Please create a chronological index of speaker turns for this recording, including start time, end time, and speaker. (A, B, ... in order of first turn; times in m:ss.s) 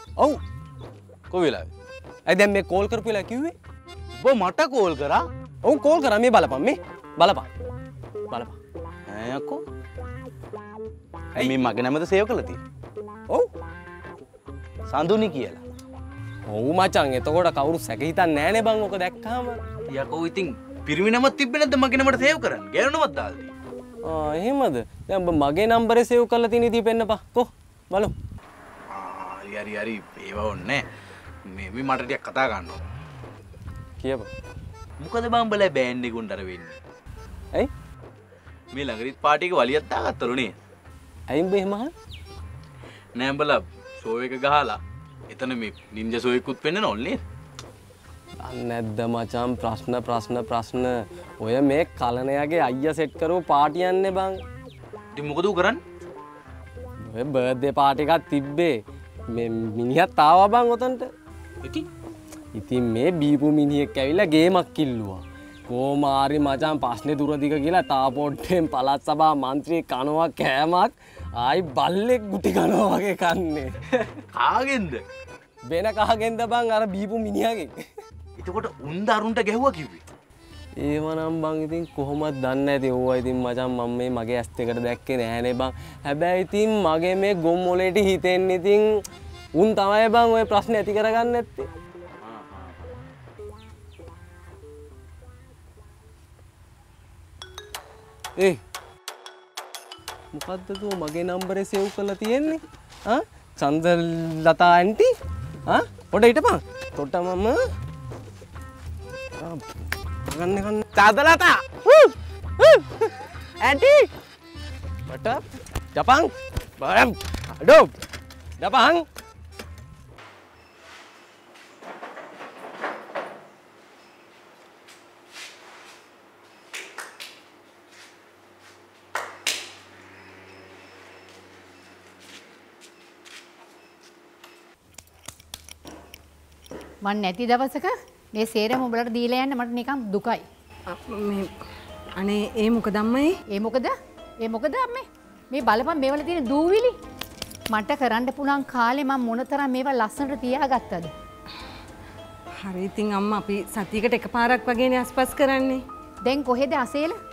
0:01.3-0:01.7 A
0:02.3-0:03.5 B
0:04.2-0:05.2 A
0:05.6-0:07.5 B
0:08.3-0:08.6 B
0:09.1-0:09.6 A
0:11.4-0:12.6 A
0:14.9-0:15.6 A
0:16.5-0:19.6 B
0:19.9-0:23.5 A
0:24.0-0:28.1 B
0:28.9-0:30.8 A
0:31.5-0:32.8 A
0:34.0-0:34.3 B
0:35.0-0:36.8 A
0:38.7-0:40.5 A
0:41.3-0:41.9 B
0:43.2-0:44.8 A
0:45.3-0:47.2 A
0:48.4-0:54.4 B
0:55.1-0:55.8 A
0:57.1-0:58.8 B
0:59.3-1:01.1 B
1:02.5-1:14.0 B
1:14.3-1:15.0 A
1:15.7-1:17.8 B
1:18.4-1:20.0 A
1:20.8-1:29.0 B
1:29.6-1:31.7 B
1:40.3-1:45.1 B
1:45.7-1:47.6 B
1:50.3-1:54.1 B
1:55.1-1:57.9 B
1:58.6-1:59.0 B
2:17.0-2:20.4 C
2:20.9-2:21.5 D
2:22.2-2:23.3 D
2:23.5-2:26.9 C
2:27.7-2:31.1 C
2:32.6-2:35.8 D
2:36.2-2:37.2 C